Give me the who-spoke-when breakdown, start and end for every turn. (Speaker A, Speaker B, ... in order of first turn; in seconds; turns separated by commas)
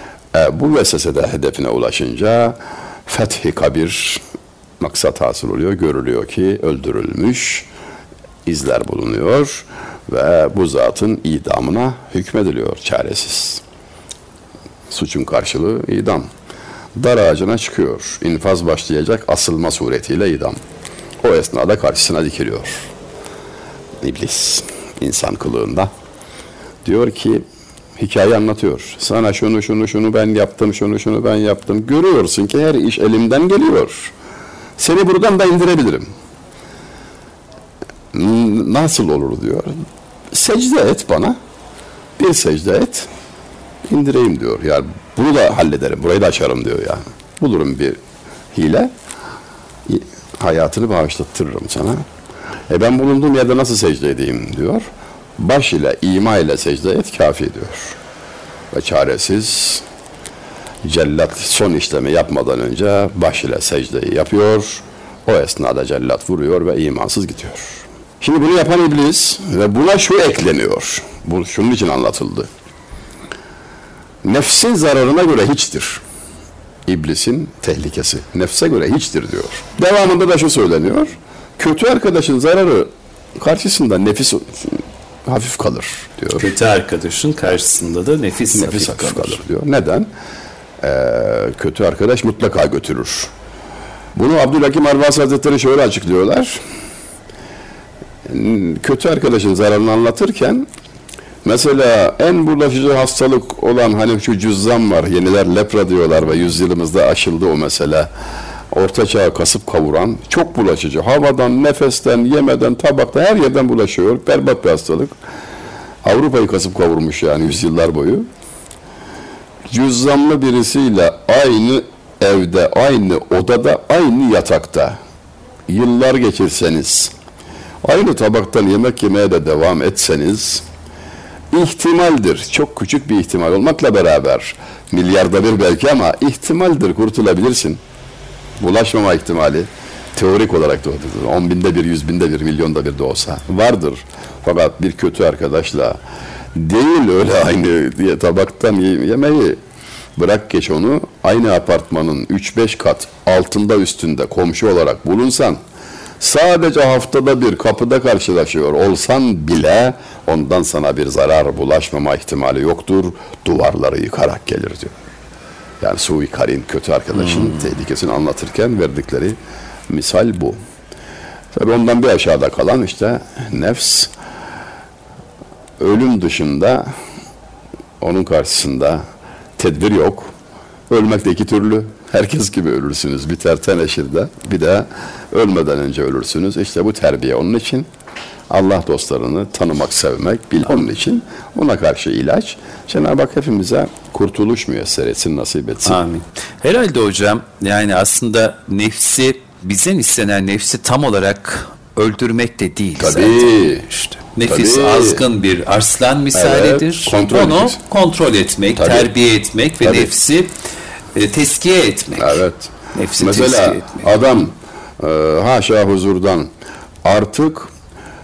Speaker A: 0.3-4.2, Speaker A: 4.8-7.7, Speaker A: 8.5-13.6, Speaker A: 14.9-16.3, Speaker A: 16.9-20.6, Speaker A: 21.2-22.9, Speaker A: 24.0-25.9, Speaker A: 26.8-27.4, Speaker A: 28.0-34.1, Speaker A: 34.8-36.1, Speaker A: 38.1-41.4, Speaker A: 42.2-43.1, Speaker A: 43.9-48.0, Speaker A: 48.5-48.9, Speaker A: 49.9-52.0, Speaker A: 52.7-54.9, Speaker A: 55.4-58.0, Speaker A: 58.7-59.8, Speaker A: 60.8-72.5, Speaker A: 74.2-76.0, Speaker A: 76.9-86.5, Speaker B: 86.4-89.4, Speaker A: 88.5-90.1, Speaker A: 90.8-93.3, Speaker A: 94.2-96.6, Speaker A: 98.3-100.7, Speaker A: 101.4-108.1, Speaker A: 108.7-115.2, Speaker A: 116.0-118.3, Speaker A: 119.7-125.0, Speaker A: 125.7-127.1, Speaker A: 127.8-130.7, Speaker A: 131.5-137.8, Speaker A: 138.6-146.0, Speaker A: 146.5-149.6, Speaker A: 150.2-155.6, Speaker A: 156.2-165.0, Speaker A: 165.8-169.4, Speaker A: 169.9-170.6, Speaker A: 171.5-174.1, Speaker A: 175.8-176.9, Speaker A: 178.0-179.0, Speaker A: 179.6-180.3, Speaker A: 180.9-187.9, Speaker A: 188.5-196.0, Speaker B: 195.8-210.5, Speaker A: 203.0-203.9, Speaker A: 204.5-205.2, Speaker A: 206.3-207.8, Speaker A: 208.8-209.1, Speaker A: 209.8-210.1, Speaker B: 211.2-212.4, Speaker A: 212.2-216.5, Speaker B: 212.9-214.1, Speaker A: 217.0-217.7